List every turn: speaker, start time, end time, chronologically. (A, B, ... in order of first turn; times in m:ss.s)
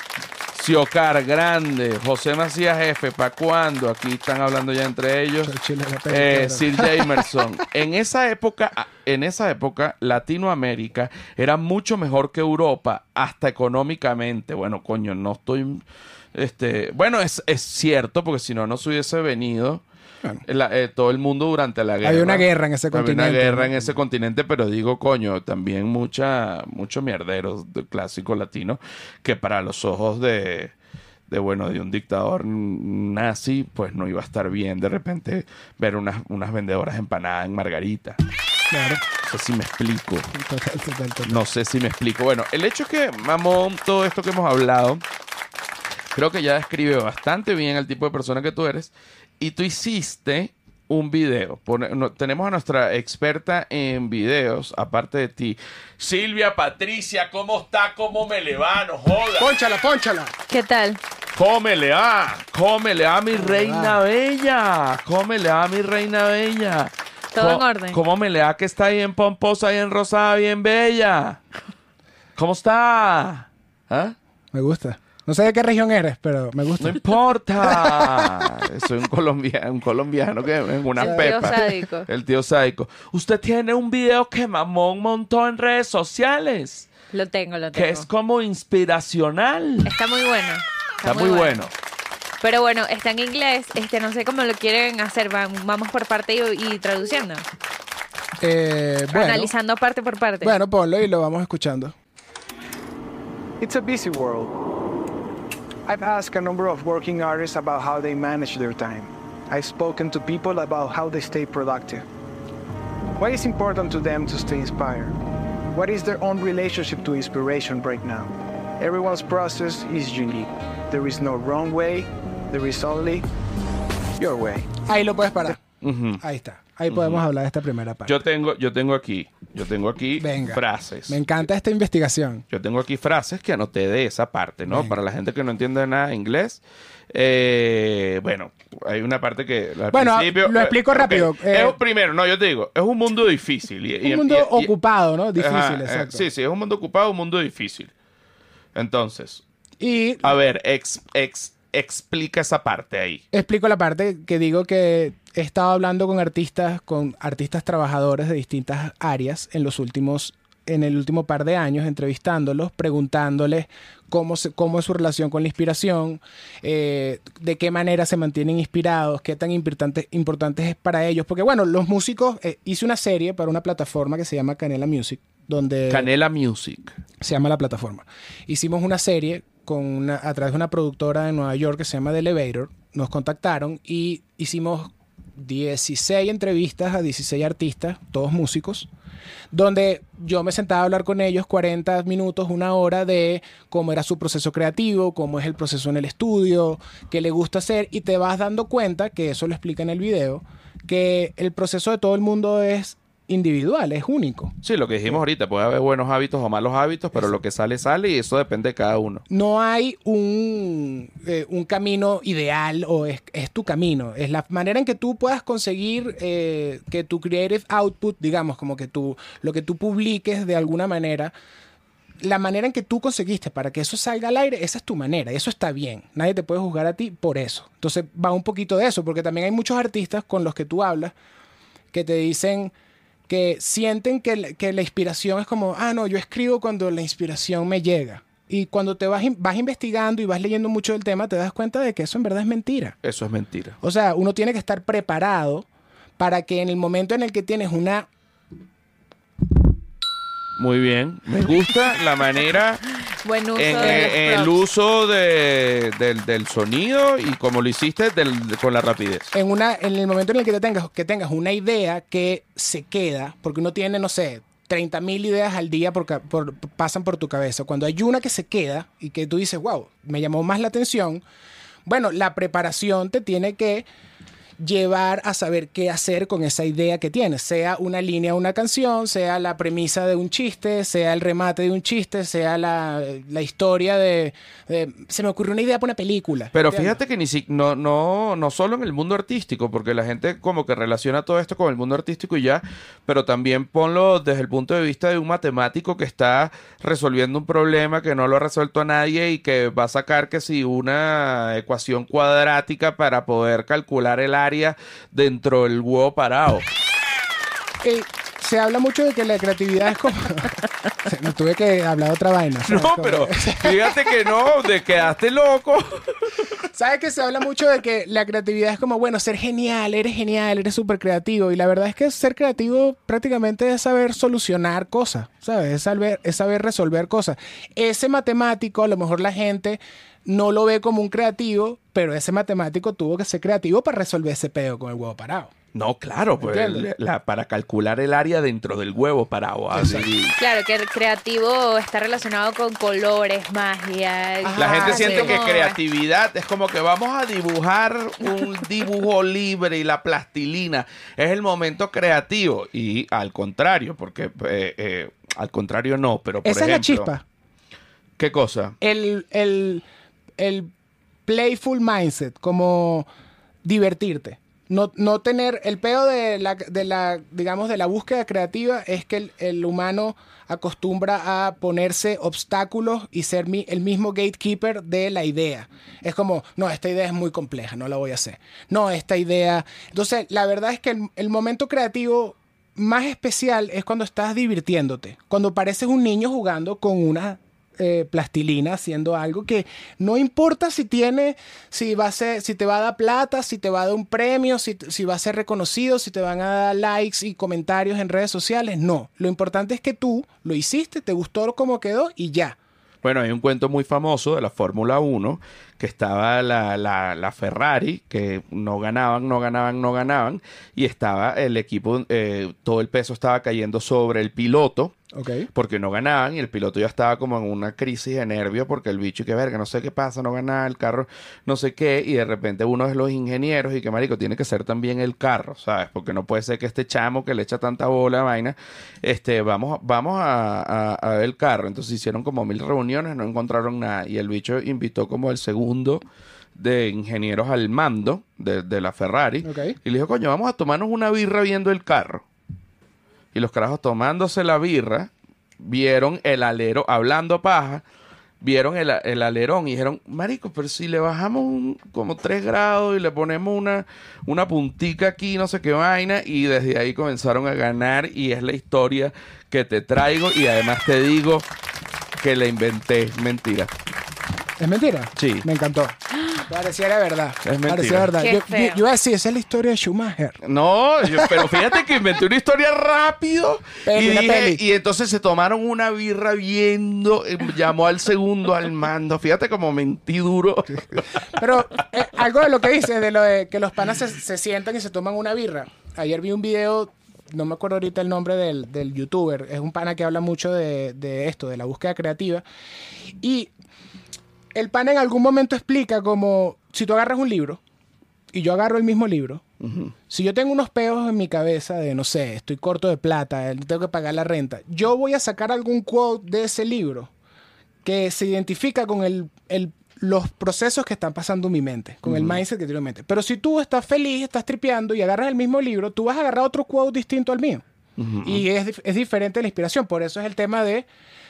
0:00.5-0:05.6 A
0:05.4-0:07.4 B
0:06.1-0:15.8 A
0:16.3-0:19.8 A
0:20.4-0:30.7 A
0:22.0-0:23.7 B
0:31.3-0:38.2 A
0:38.7-0:39.0 B
0:39.2-0:40.3 A
0:40.3-0:41.4 B
0:41.3-0:45.0 A
0:46.1-0:59.5 A
0:59.4-1:00.3 B
1:00.5-1:01.0 C
1:01.3-1:11.4 A
1:03.3-1:04.0 B
1:07.3-1:08.0 C
1:12.4-1:14.2 A
1:14.5-1:17.0 B
1:16.8-1:26.9 A
1:17.6-1:18.3 B
1:21.0-1:22.1 C
1:21.0-1:21.6 B
1:27.1-1:28.1 C
1:27.7-1:29.9 A
1:29.8-1:31.7 C
1:31.0-1:31.7 A
1:32.4-1:37.4 C
1:38.4-1:39.5 B
1:39.1-1:40.6 C
1:40.4-1:41.9 B
1:43.6-1:44.5 D
1:45.9-1:52.1 D
1:53.2-1:55.2 D
1:55.7-2:03.3 D
2:04.2-2:04.7 D
2:04.9-2:05.6 B
2:05.8-2:06.2 A
2:06.2-2:08.2 B
2:06.9-2:07.2 A
2:08.1-2:11.2 A
2:10.2-2:12.4 B
2:12.5-2:24.7 A
2:14.7-2:15.0 B
2:19.9-2:21.8 B
2:24.0-2:26.3 B
2:25.4-2:27.9 A
2:28.8-2:29.4 A
2:29.8-2:30.3 B
2:30.2-2:33.2 A
2:33.3-2:56.1 B
2:55.9-2:57.0 A
2:57.2-3:08.9 B
3:09.5-3:24.6 B
3:24.6-3:29.2 A
3:29.3-3:41.3 B
3:42.2-3:51.1 B
3:51.9-3:52.7 B
3:53.3-4:03.0 B
4:03.0-4:03.8 A
4:03.8-4:05.7 B
4:06.2-4:08.1 B
4:10.6-4:12.8 A
4:13.2-4:14.6 C
4:13.6-4:19.3 A
4:13.8-4:14.1 B
4:19.3-4:31.2 B
4:31.8-4:33.9 B
4:34.6-4:47.0 B
4:46.5-5:06.7 A
5:07.8-5:14.3 B
5:12.6-5:16.5 A
5:16.7-5:35.5 B
5:35.7-5:40.4 A
5:36.4-5:36.9 B
5:39.7-5:40.1 B
5:40.4-5:45.8 C
5:44.4-5:45.4 B
5:44.6-5:57.1 A
5:56.4-5:57.2 B
5:58.2-5:58.8 A
5:58.8-5:59.8 B
6:00.4-6:00.7 B
6:01.3-6:03.1 B
6:03.6-6:42.6 B
6:43.0-6:55.0 A
6:55.1-6:55.5 B
6:55.5-7:16.0 A
7:16.6-7:22.2 A
7:19.4-7:19.8 B
7:23.3-7:27.8 A
7:28.4-7:41.5 A
7:42.2-7:43.7 A
7:44.6-7:50.4 B
7:45.2-7:45.5 A
7:47.4-7:48.1 A
7:48.2-7:48.8 C
7:50.4-8:01.4 A
7:53.8-7:54.6 B
8:00.7-8:12.4 B
8:13.2-8:13.5 B
8:14.6-8:17.6 B
8:18.3-8:19.4 B
8:19.6-8:19.9 A
8:20.1-8:27.1 B
8:27.8-8:37.6 B
8:32.0-8:32.4 A
8:38.0-8:38.4 A
8:38.2-8:40.9 B